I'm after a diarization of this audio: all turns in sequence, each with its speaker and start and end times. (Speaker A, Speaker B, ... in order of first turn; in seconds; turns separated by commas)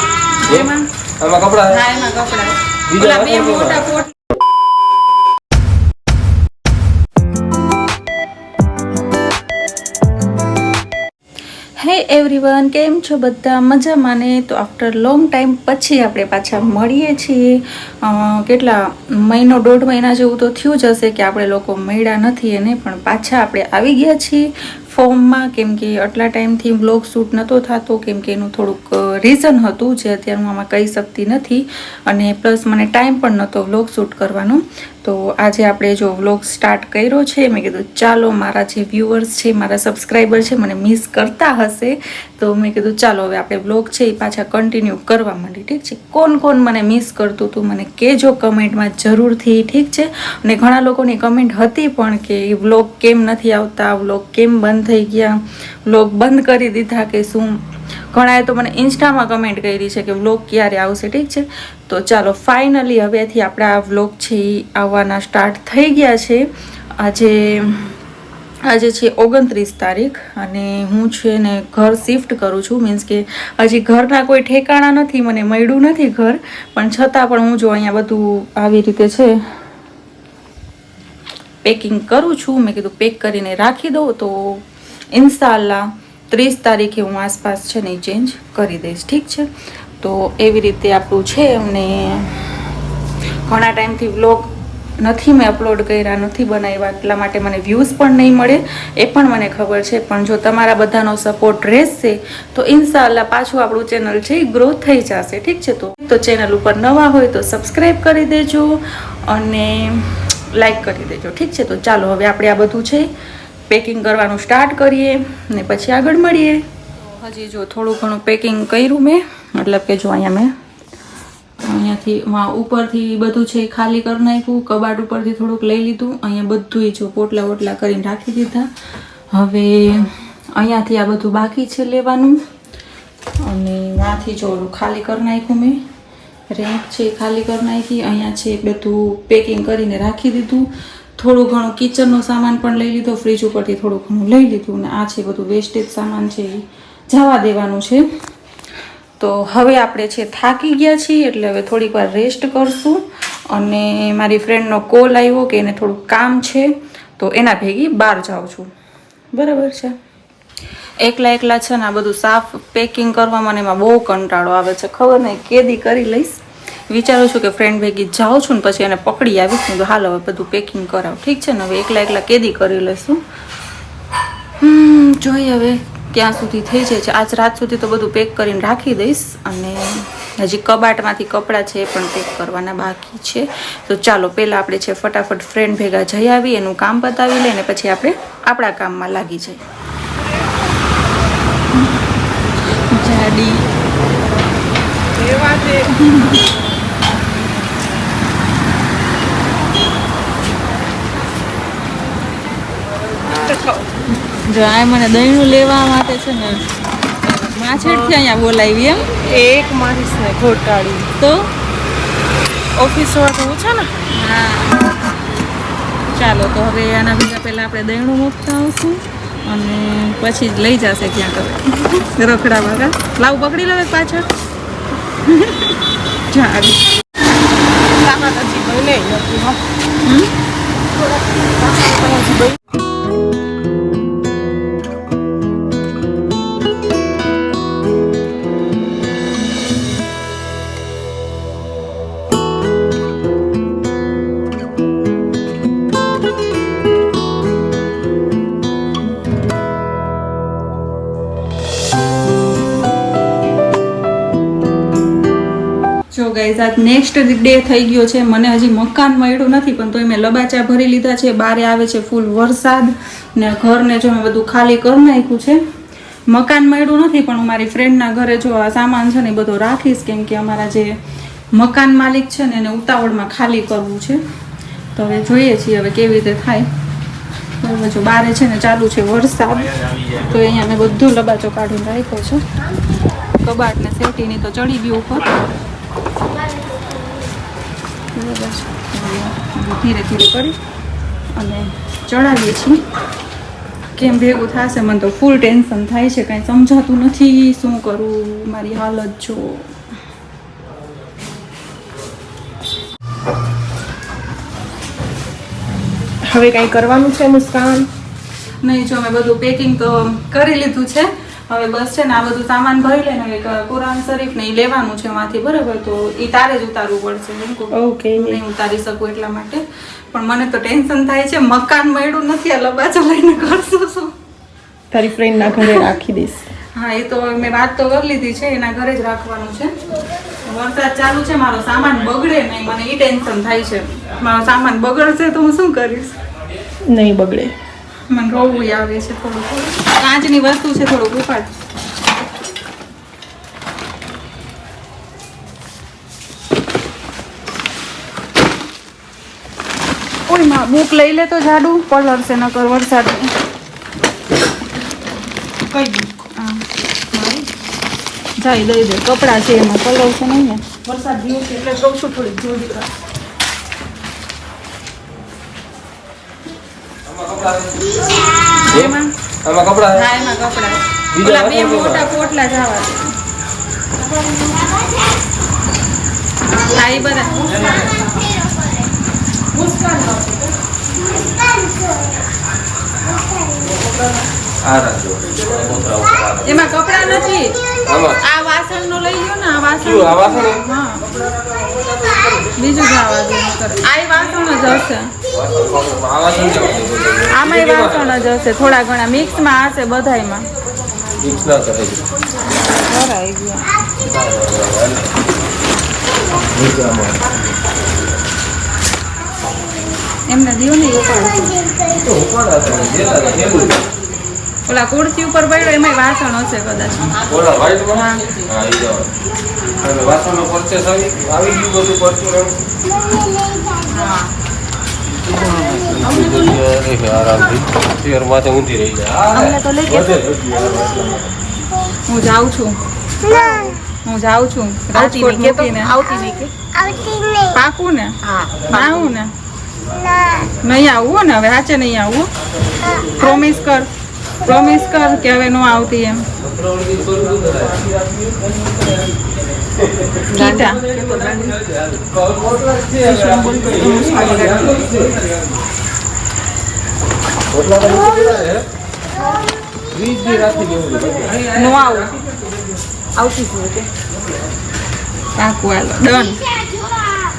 Speaker A: 0.4-0.9, Speaker B: 1.2-1.8, Speaker A: 1.7-4.2, Speaker B: 2.9-3.9, Speaker A: 11.8-67.9, Speaker A: 68.7-79.4, Speaker A: 81.6-89.5, Speaker A: 90.0-92.6, Speaker A: 93.4-113.1, Speaker A: 113.7-120.5, Speaker A: 121.6-128.7, Speaker A: 129.3-132.4, Speaker A: 133.4-135.8, Speaker A: 136.5-148.1, Speaker A: 149.2-158.7, Speaker A: 159.3-159.9, Speaker A: 161.0-173.2, Speaker A: 174.6-189.6, Speaker A: 192.8-193.7, Speaker C: 195.1-195.9, Speaker A: 195.9-196.5, Speaker C: 203.3-203.8, Speaker A: 204.2-206.7, Speaker A: 207.2-209.1, Speaker C: 207.7-208.1, Speaker C: 209.2-211.1, Speaker A: 211.2-211.5, Speaker C: 212.7-213.9, Speaker A: 214.1-214.9, Speaker A: 216.1-224.3, Speaker A: 225.1-226.8, Speaker C: 227.8-229.6, Speaker A: 230.0-230.3, Speaker C: 230.9-232.6, Speaker A: 256.1-265.6, Speaker A: 266.3-271.0, Speaker A: 271.5-274.2, Speaker A: 274.9-276.7, Speaker A: 277.6-282.4, Speaker A: 283.4-285.4, Speaker A: 288.1-290.6, Speaker A: 291.3-292.8, Speaker A: 293.9-299.7, Speaker C: 306.2-307.9, Speaker A: 308.6-324.1, Speaker C: 317.7-318.4, Speaker C: 324.9-326.5, Speaker A: 325.6-325.9, Speaker A: 326.7-329.8, Speaker A: 330.4-336.1, Speaker C: 336.9-337.5, Speaker A: 338.1-341.5, Speaker A: 350.3-353.3, Speaker C: 355.7-356.2, Speaker A: 356.3-357.4, Speaker A: 358.4-360.7, Speaker C: 360.8-362.9, Speaker B: 367.1-367.9, Speaker A: 368.6-369.1, Speaker B: 368.7-370.1, Speaker A: 369.9-373.1, Speaker B: 371.1-372.1, Speaker A: 376.5-378.1, Speaker C: 379.5-380.5, Speaker B: 384.6-386.6, Speaker A: 386.4-387.6, Speaker B: 387.9-388.2, Speaker A: 388.2-391.1, Speaker B: 389.8-390.6, Speaker A: 392.5-395.2, Speaker B: 395.2-398.3, Speaker A: 397.2-400.5, Speaker B: 401.2-402.1, Speaker A: 402.5-403.8, Speaker B: 404.0-405.2, Speaker B: 406.3-407.3, Speaker A: 410.3-411.7, Speaker B: 411.9-413.8, Speaker A: 414.7-417.2, Speaker B: 417.2-419.1, Speaker A: 417.9-418.4, Speaker B: 419.7-422.6, Speaker A: 423.8-424.3, Speaker B: 425.1-431.4, Speaker C: 429.4-430.1, Speaker A: 432.1-432.8, Speaker C: 433.3-433.7, Speaker A: 434.0-436.0, Speaker C: 434.9-436.7, Speaker A: 437.5-439.3, Speaker C: 438.2-438.6, Speaker A: 440.6-442.3, Speaker A: 443.0-443.9, Speaker A: 444.4-446.3, Speaker B: 446.4-448.2, Speaker A: 450.3-451.6, Speaker B: 450.9-455.3, Speaker A: 452.8-455.0, Speaker B: 457.5-458.6, Speaker B: 459.9-461.8, Speaker A: 461.5-462.2, Speaker C: 463.1-463.9, Speaker A: 465.3-466.4